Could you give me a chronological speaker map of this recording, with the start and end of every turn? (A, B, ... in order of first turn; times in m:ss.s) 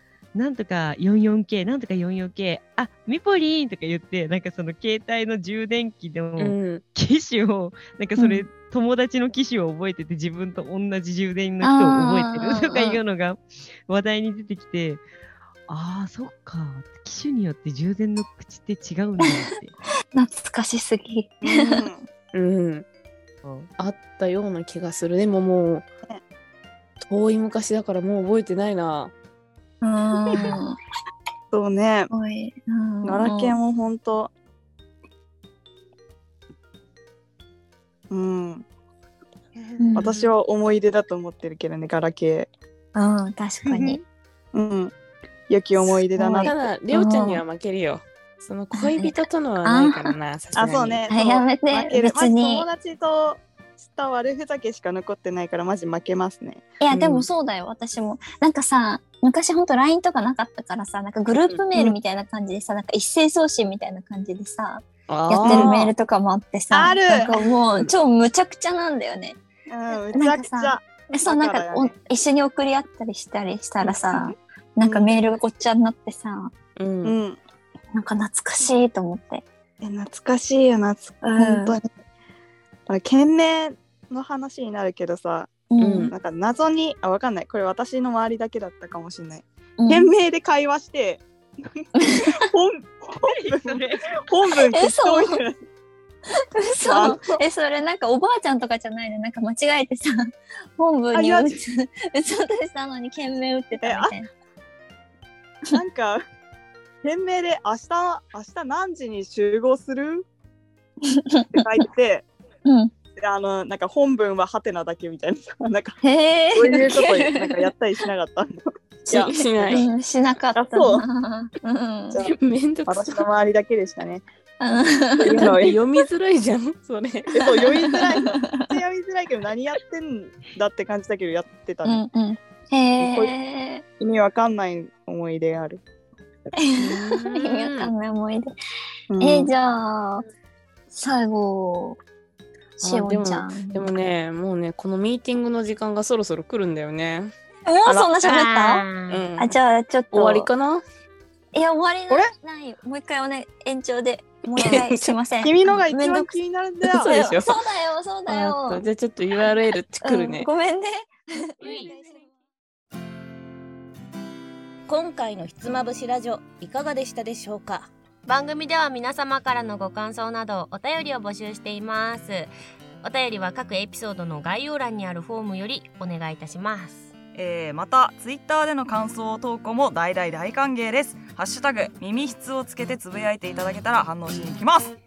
0:00.4-0:15.0 A
0:06.4-0:06.8 B
0:08.2-0:08.4 C
0:11.6-0:13.0 C
0:15.7-0:19.7 A
0:20.1-0:21.9 C
0:21.4-0:22.1 D
0:22.3-0:22.9 B
0:23.4-0:23.7 A
0:23.8-0:25.9 B
0:27.0-0:29.1 B
0:29.8-0:30.8 C
0:31.5-0:32.1 D
0:32.1-0:33.6 C
0:33.0-0:34.3 D
0:38.1-0:38.7 D
0:39.6-0:40.3 B
0:39.8-0:40.1 C
0:40.0-0:42.5 D
0:43.0-0:44.0 C
0:44.5-0:44.9 D
0:45.5-0:46.6 D
0:45.8-0:47.4 C
0:46.4-0:51.0 B
0:48.7-0:50.1 C
0:50.6-0:56.7 D
0:51.1-0:52.7 C
0:56.8-1:09.4 C
0:56.9-0:57.3 B
1:01.5-1:02.0 B
1:05.1-1:05.8 B
1:05.4-1:05.9 D
1:06.7-1:07.4 D
1:09.7-1:11.9 D
1:10.1-1:16.5 C
1:13.8-1:15.2 D
1:16.8-1:17.2 B
1:17.0-1:17.4 D
1:17.9-1:19.4 C
1:19.8-1:21.9 D
1:21.2-1:21.8 C
1:22.9-1:25.5 D
1:25.7-1:26.1 C
1:25.8-1:26.1 B
1:26.1-1:31.2 D
1:29.8-1:30.1 C
1:32.0-1:32.4 C
1:32.2-1:35.6 D
1:33.2-1:34.2 A
1:34.7-1:35.4 C
1:36.6-1:44.3 C
1:36.8-1:37.4 D
1:41.1-1:41.6 D
1:43.8-1:44.1 D
1:45.7-1:46.2 D
1:47.0-1:50.2 D
1:51.1-1:51.6 C
1:51.5-1:52.3 D
1:52.6-1:52.9 C
1:53.2-1:56.0 D
1:56.0-1:57.7 C
1:56.5-1:58.6 D
1:59.0-2:02.2 C
1:59.1-1:59.9 B
1:59.6-1:59.9 D
2:00.6-2:01.1 D
2:02.2-2:03.2 B
2:02.9-2:04.2 D
2:04.6-2:05.5 C
2:05.2-2:05.8 D
2:05.4-2:07.6 B
2:07.3-2:12.0 D
2:07.8-2:08.7 C
2:11.8-2:13.8 C
2:13.0-2:13.3 D
2:14.0-2:15.8 D
2:16.6-2:18.5 C
2:16.8-2:17.9 B
2:19.1-2:19.5 D
2:19.2-2:20.2 C
2:20.9-2:22.0 C
2:22.8-2:24.0 C
2:22.8-2:27.3 B
2:27.7-2:28.9 C
2:27.9-2:28.8 D
2:29.1-2:29.5 B
2:29.4-2:30.5 C
2:30.1-2:30.8 B
2:31.5-2:36.3 C
2:34.5-2:35.2 B
2:35.4-2:37.1 D
2:36.8-2:37.6 B
2:37.0-2:38.8 C
2:38.3-2:40.5 B
2:40.0-2:41.5 C
2:44.9-2:47.9 E
2:48.3-2:57.1 F
2:57.4-3:05.0 G